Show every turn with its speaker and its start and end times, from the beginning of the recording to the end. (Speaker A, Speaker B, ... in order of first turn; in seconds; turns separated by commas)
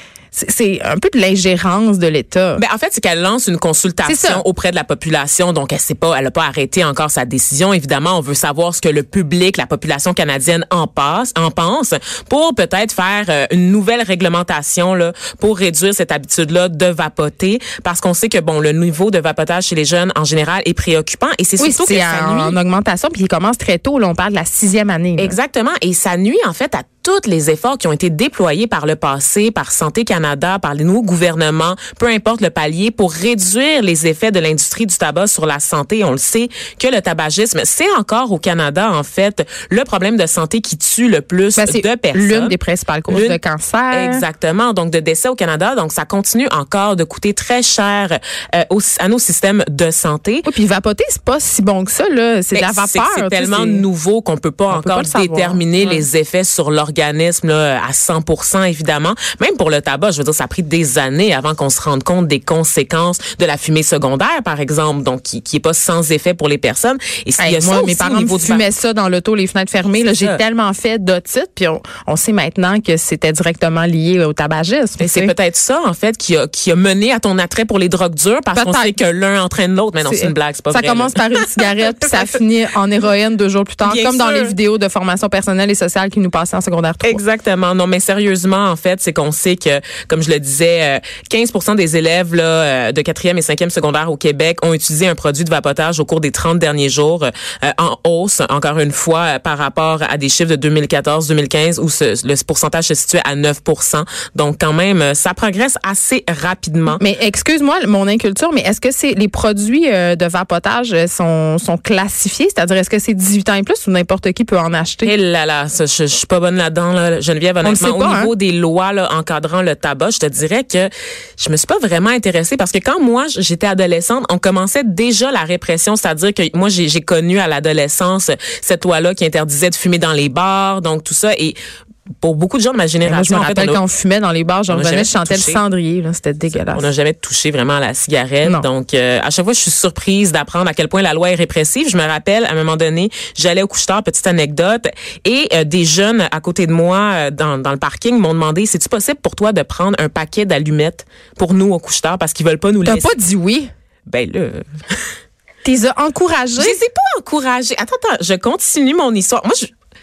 Speaker A: 0.3-2.6, Speaker B: 2.6-22.6, Speaker A: 4.0-4.4, Speaker A: 21.6-25.4, Speaker B: 25.2-42.6, Speaker A: 41.6-44.2, Speaker B: 43.1-43.4, Speaker B: 43.9-50.5, Speaker A: 50.5-53.8, Speaker B: 52.5-68.7, Speaker A: 54.7-56.0, Speaker A: 67.4-75.3, Speaker B: 70.0-70.4, Speaker B: 75.0-82.2, Speaker A: 78.5-79.0, Speaker A: 80.0-87.2, Speaker B: 83.8-84.6, Speaker B: 87.0-107.0, Speaker A: 107.0-115.1, Speaker B: 115.0-131.6, Speaker A: 117.6-118.3, Speaker B: 132.2-133.8, Speaker A: 133.1-136.9, Speaker B: 134.7-135.6, Speaker B: 136.7-153.2, Speaker A: 152.8-153.7, Speaker B: 154.1-154.7, Speaker A: 155.6-156.8, Speaker B: 156.6-159.7